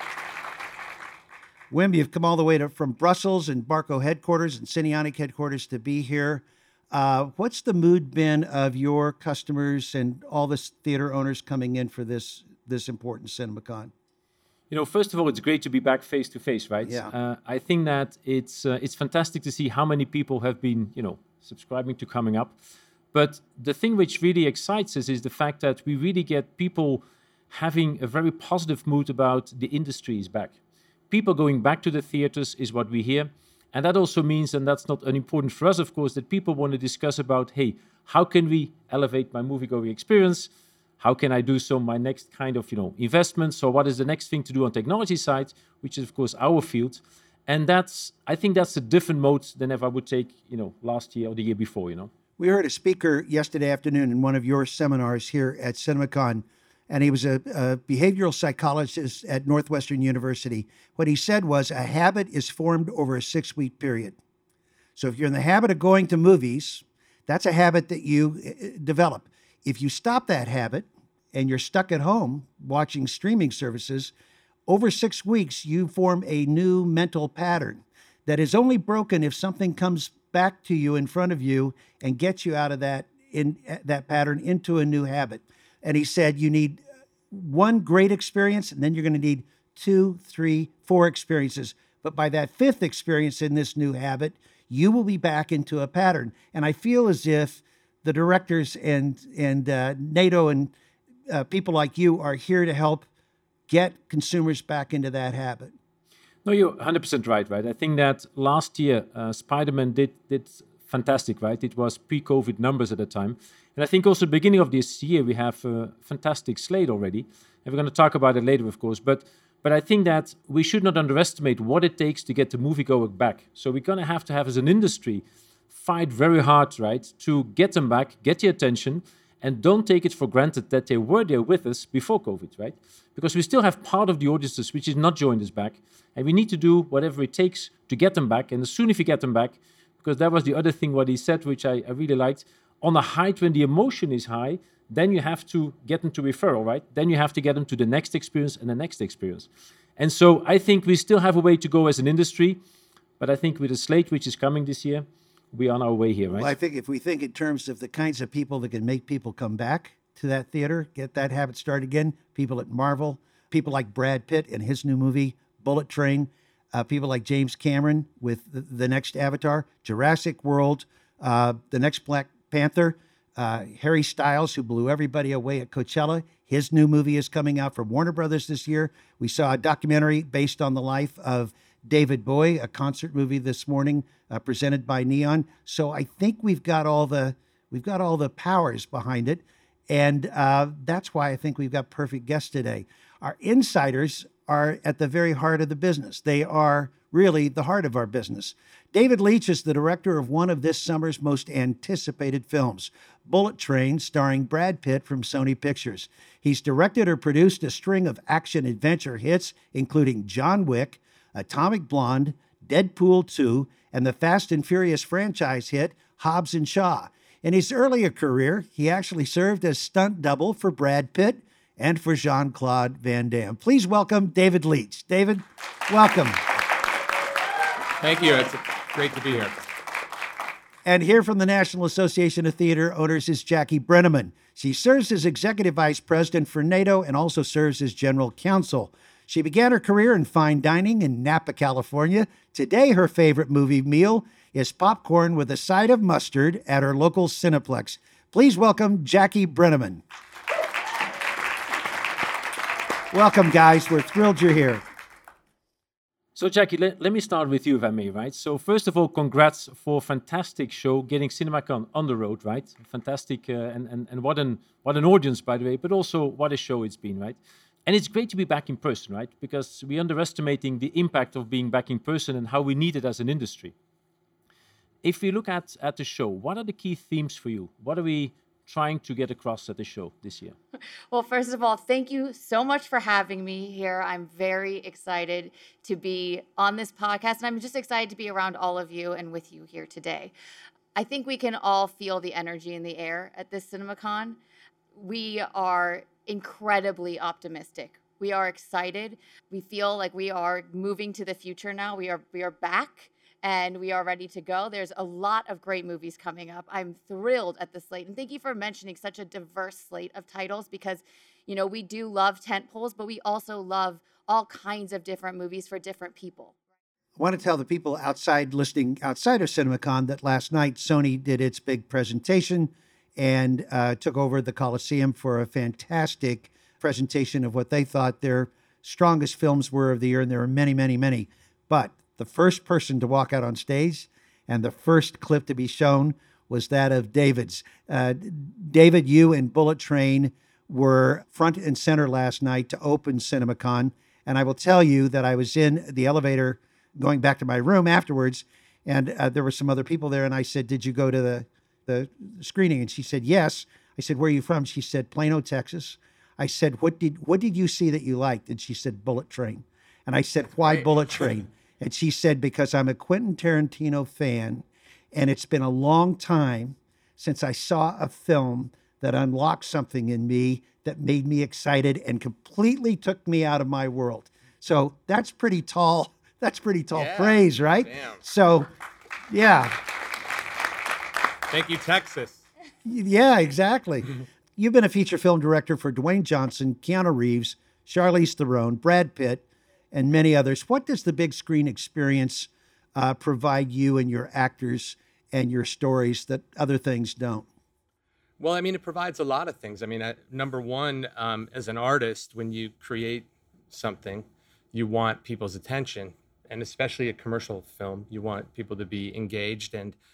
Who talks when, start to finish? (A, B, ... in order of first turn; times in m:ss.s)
0:01.7-0:13.9 A
0:14.7-0:22.5 B
0:16.8-0:17.1 A
0:23.1-0:30.6 B
0:31.1-0:52.1 B
0:52.4-1:04.2 A
1:05.0-1:14.1 A
1:14.7-1:40.7 A
1:41.3-1:43.1 A
1:43.7-1:45.7 A
1:46.4-2:32.6 B
2:33.2-2:36.5 B
2:36.4-3:46.4 A
3:48.0-3:49.6 C
3:50.8-4:10.0 A
4:13.1-4:14.8 A
4:16.3-4:33.7 B
4:35.0-4:40.6 B
4:41.1-4:50.3 D
4:50.9-4:54.4 D
4:54.9-5:16.5 D
5:17.2-6:18.7 A
6:16.9-6:18.2 C
6:19.3-6:19.8 A
6:21.5-6:22.4 C
6:22.8-6:37.5 A
6:38.4-6:50.0 C